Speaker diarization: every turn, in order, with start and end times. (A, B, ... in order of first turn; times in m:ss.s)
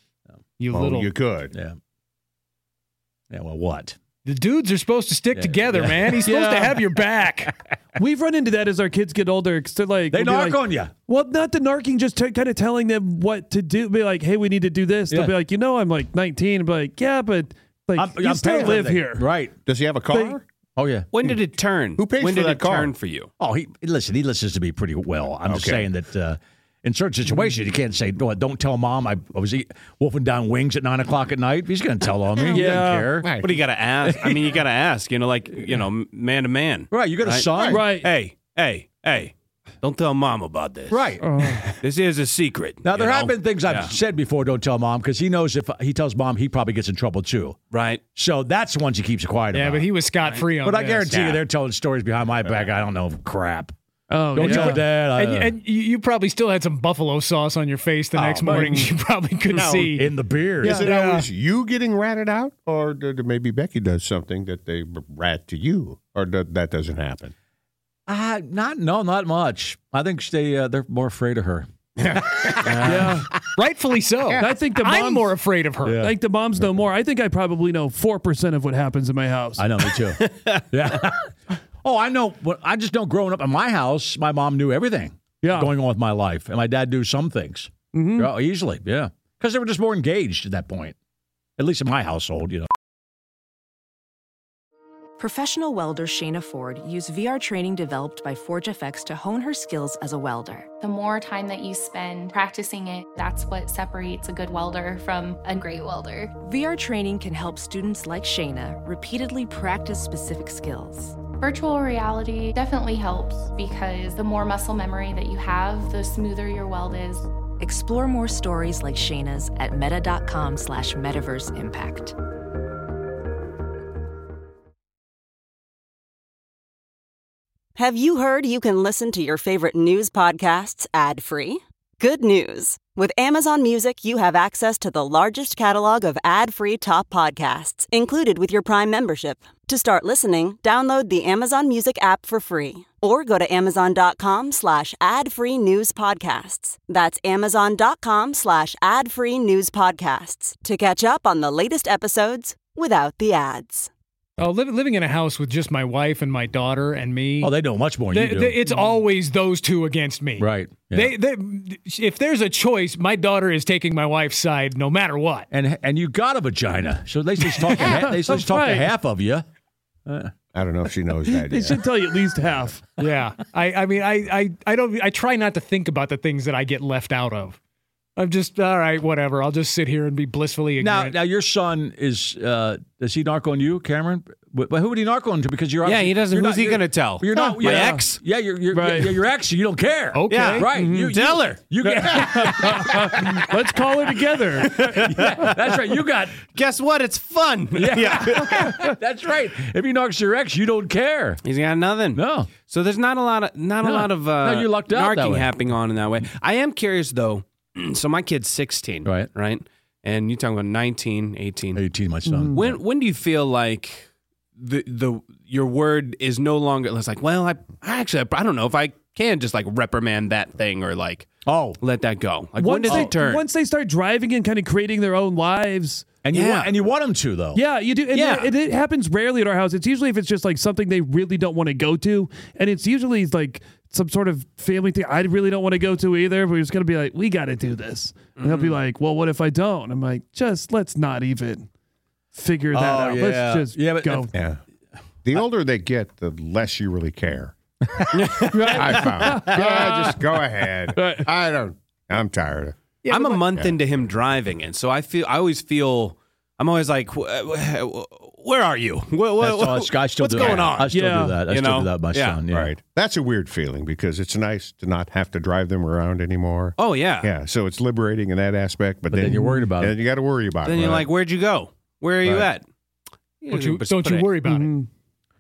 0:00.6-0:01.1 A
0:00.7-0:01.5 B
0:03.3-0:04.0 C
0:04.2-0:07.5 A
0:05.3-0:06.9 C
0:08.0-0:19.3 D
0:10.1-0:10.9 C
0:15.1-0:15.4 C
0:18.0-0:19.5 C
0:19.6-0:20.4 B
0:20.1-0:20.4 D
0:20.8-0:21.1 C
0:21.1-0:23.3 E
0:22.0-0:23.0 B
0:23.4-0:33.3 C
0:25.5-0:25.9 B
0:32.4-0:33.1 D
0:33.2-0:33.6 B
0:33.4-0:41.1 E
0:36.9-0:37.9 C
0:37.5-0:37.8 B
0:37.7-0:38.1 D
0:40.9-0:41.3 C
0:41.2-0:41.7 D
0:41.8-0:44.0 E
0:42.8-0:47.6 C
0:47.7-0:48.0 E
0:48.2-0:49.9 C
0:49.5-0:51.2 A
0:50.6-0:53.7 C
0:54.1-0:54.9 D
0:54.3-0:55.6 C
0:54.4-1:00.1 A
0:58.1-0:58.9 C
0:58.4-0:58.9 D
0:59.5-0:59.9 B
0:59.7-1:00.9 C
1:00.6-1:00.9 D
1:00.6-1:07.3 B
1:00.7-1:01.3 A
1:08.1-1:11.7 C
1:12.0-1:12.8 B
1:12.5-1:13.3 C
1:12.8-1:13.3 D
1:13.6-1:16.0 A
1:14.4-1:15.4 D
1:15.8-1:16.2 C
1:16.0-1:19.7 D
1:19.6-1:21.2 C
1:21.8-1:31.0 C
1:25.4-1:25.7 D
1:27.9-1:28.3 D
1:31.6-1:32.7 C
1:35.2-1:40.7 F
1:40.8-1:46.3 G
1:46.4-1:51.2 F
1:51.4-1:57.3 G
1:57.6-2:02.2 F
2:07.8-2:33.9 H
2:34.4-2:45.5 A
2:37.4-2:38.6 C
2:38.7-2:39.0 D
2:40.4-2:41.2 C
2:45.5-2:49.4 C
2:47.8-2:48.9 D
2:50.1-2:50.3 C
2:50.5-2:51.8 B
2:51.3-2:52.8 D
2:53.0-2:57.6 A
2:58.2-3:01.2 A
3:00.8-3:13.5 C
3:05.8-3:08.2 E
3:07.3-3:08.1 D
3:08.7-3:09.2 D
3:10.1-3:10.7 A
3:10.3-3:12.8 E
3:10.7-3:11.2 D
3:12.1-3:14.8 D
3:14.1-3:16.4 C
3:14.8-3:15.5 E
3:16.5-3:18.7 E
3:17.8-3:21.4 C
3:21.4-3:31.8 E
3:22.1-3:22.5 C
3:23.8-3:25.6 C
3:29.0-3:29.3 C
3:31.7-3:32.8 C
3:32.3-3:32.6 D
3:32.6-3:41.3 E
3:41.5-3:41.8 C
3:41.8-3:43.4 E
3:42.6-3:46.1 D
3:42.9-3:43.1 C
3:46.2-3:47.6 C
3:46.3-3:46.8 E
3:47.5-4:01.7 D
3:48.1-3:48.5 E
3:58.4-3:58.8 E
4:02.3-4:04.3 D
4:02.7-4:04.3 C
4:04.3-4:04.6 B
4:05.2-4:07.5 B
4:08.2-4:09.3 E
4:08.5-4:11.3 D
4:08.7-4:12.8 B
4:13.0-4:13.4 A
4:13.1-4:20.9 E
4:19.4-4:22.7 C
4:20.8-4:21.4 D
4:21.5-4:22.4 E
4:22.5-4:31.1 B
4:26.8-4:27.3 E
4:29.1-4:30.0 C
4:29.3-4:29.7 D
4:30.6-4:32.7 E
4:32.2-4:32.5 C
4:33.4-4:34.3 E
4:33.5-4:34.7 A
4:34.4-4:34.9 D